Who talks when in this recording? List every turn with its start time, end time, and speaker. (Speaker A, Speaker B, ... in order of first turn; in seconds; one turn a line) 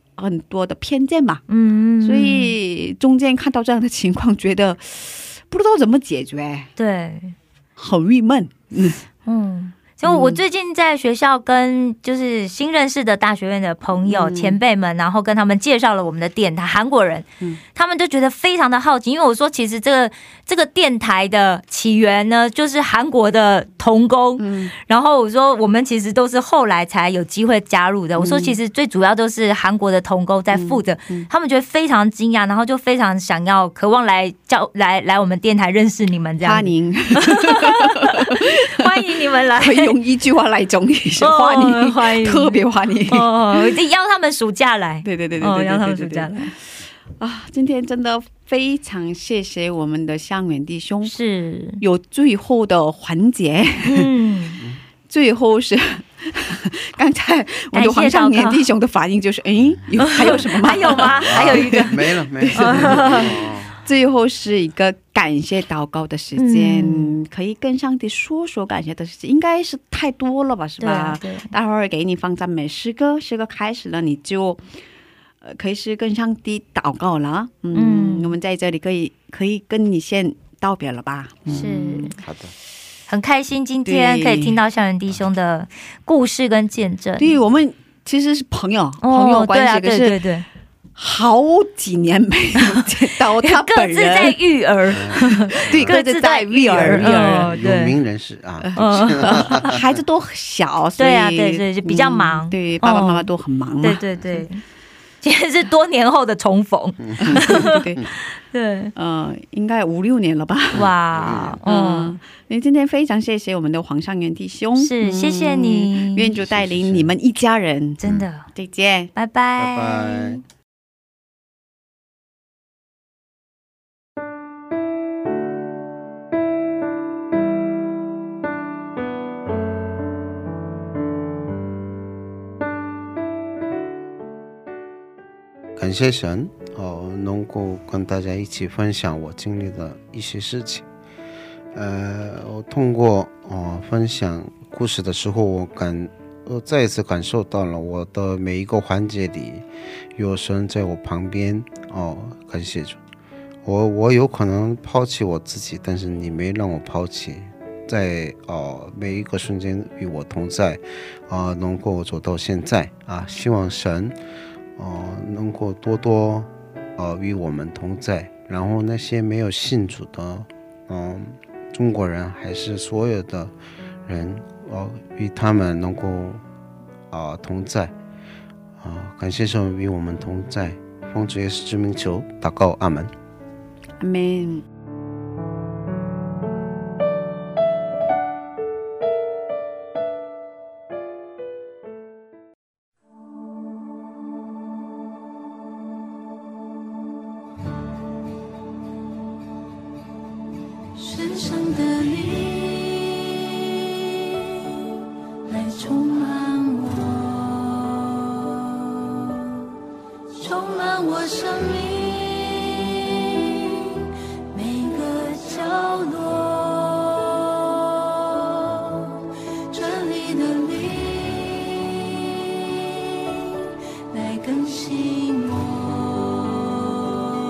Speaker A: 0.2-1.4
Speaker B: 1.5-2.6
Speaker A: 2.0-6.7
Speaker B: 6.8-7.3
Speaker A: 7.8-9.0
Speaker B: 9.3-40.0
Speaker A: 10.0-10.4
Speaker A: 14.1-14.6
Speaker A: 24.4-24.7
Speaker A: 28.2-28.6
Speaker A: 30.5-31.3
Speaker A: 36.4-43.8
Speaker B: 41.2-46.5
Speaker A: 45.0-46.6
Speaker A: 47.2-51.1
Speaker B: 51.0-51.8
Speaker A: 51.8-54.1
Speaker B: 53.9-54.6
Speaker A: 55.1-74.7
Speaker B: 57.7-58.7
Speaker B: 60.0-62.0
Speaker C: 61.2-63.8
Speaker B: 62.5-63.3
Speaker B: 66.4-67.2
Speaker B: 70.8-71.5
Speaker A: 75.4-82.2
Speaker B: 77.7-78.3
Speaker B: 81.5-82.2
Speaker C: 82.2-82.5
Speaker B: 83.1-87.3
Speaker A: 83.8-84.6
Speaker A: 87.2-90.2
Speaker B: 89.0-90.5
Speaker A: 91.0-94.4
Speaker B: 93.4-98.0
Speaker C: 94.9-96.0
Speaker A: 95.1-97.6
Speaker C: 96.7-100.0
Speaker A: 98.6-104.5
Speaker B: 98.8-99.7
Speaker B: 101.0-103.3
Speaker B: 103.8-104.6
Speaker B: 105.2-107.9
Speaker C: 107.0-108.0
Speaker A: 107.2-108.0
Speaker B: 108.4-108.9
Speaker A: 109.0-110.9
Speaker C: 110.7-111.6
Speaker B: 110.7-112.2
Speaker A: 111.7-118.0
Speaker B: 114.8-116.3
Speaker C: 116.4-117.1
Speaker B: 118.0-118.5
Speaker A: 118.5-119.1
Speaker B: 119.2-120.4
Speaker C: 119.6-120.4
Speaker C: 135.8-140.9
Speaker C: 141.7-149.7
Speaker C: 150.2-153.0
Speaker C: 153.7-164.2
Speaker C: 164.8-173.5
Speaker C: 174.1-176.4
Speaker C: 177.1-177.9
Speaker C: 178.8-183.1
Speaker A: 184.0-184.7
Speaker D: 201.0-203.4
Speaker D: 205.5-208.0
Speaker D: 210.4-213.9
Speaker D: 214.5-219.2
Speaker D: 219.7-222.2
Speaker D: 224.1-226.7